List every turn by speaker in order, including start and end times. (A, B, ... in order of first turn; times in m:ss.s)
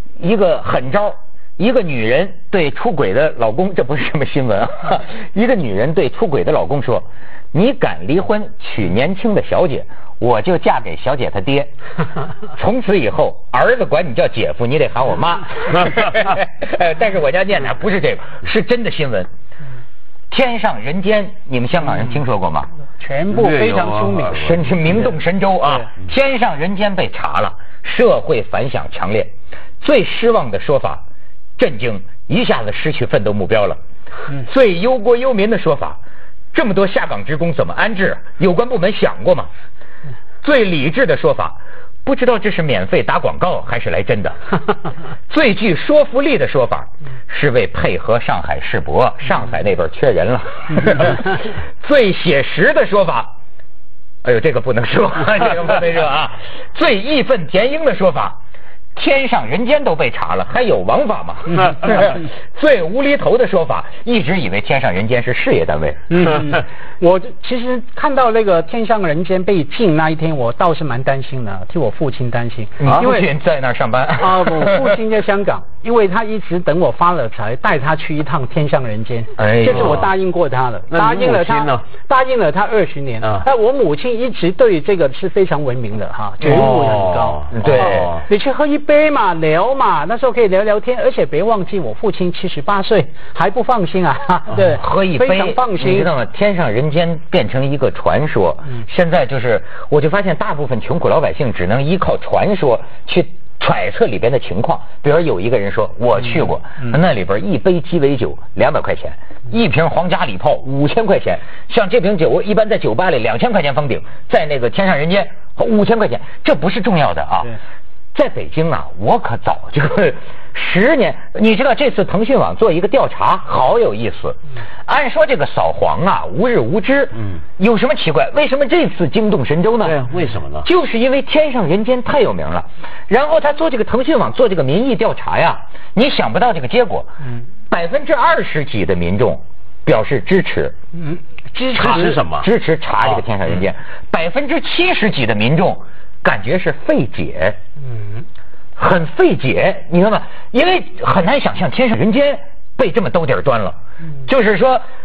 0:00.2-0:11.7 A
0:12.6-0:19.3 A
0:20.3-0:22.7 A
0:23.0-0:24.4 B
0:23.3-0:24.7 C
0:24.3-0:31.0 A
0:31.6-0:33.8 A
0:34.3-0:36.0 A
0:36.5-0:39.5 A
0:40.4-0:44.4 A
0:45.3-0:53.3 A
0:54.2-0:58.4 A
0:58.9-1:06.0 A
1:06.1-1:13.3 B
1:12.8-1:15.0 A
1:14.2-1:36.1 B
1:19.4-1:20.0 A
1:19.7-1:20.1 C
1:20.9-1:21.8 C
1:23.2-1:23.5 C
1:26.4-1:26.8 A
1:26.4-1:28.2 C
1:27.5-1:28.1 A
1:34.6-1:57.6 A
1:58.1-2:10.0 A
2:09.8-2:10.7 C
2:10.6-2:17.1 A
2:17.7-2:20.7 A
2:20.9-2:22.1 B
2:21.7-2:27.6 A
2:21.8-2:22.5 C
2:23.1-2:23.6 C
2:27.9-2:28.2 B
2:28.8-2:34.8 A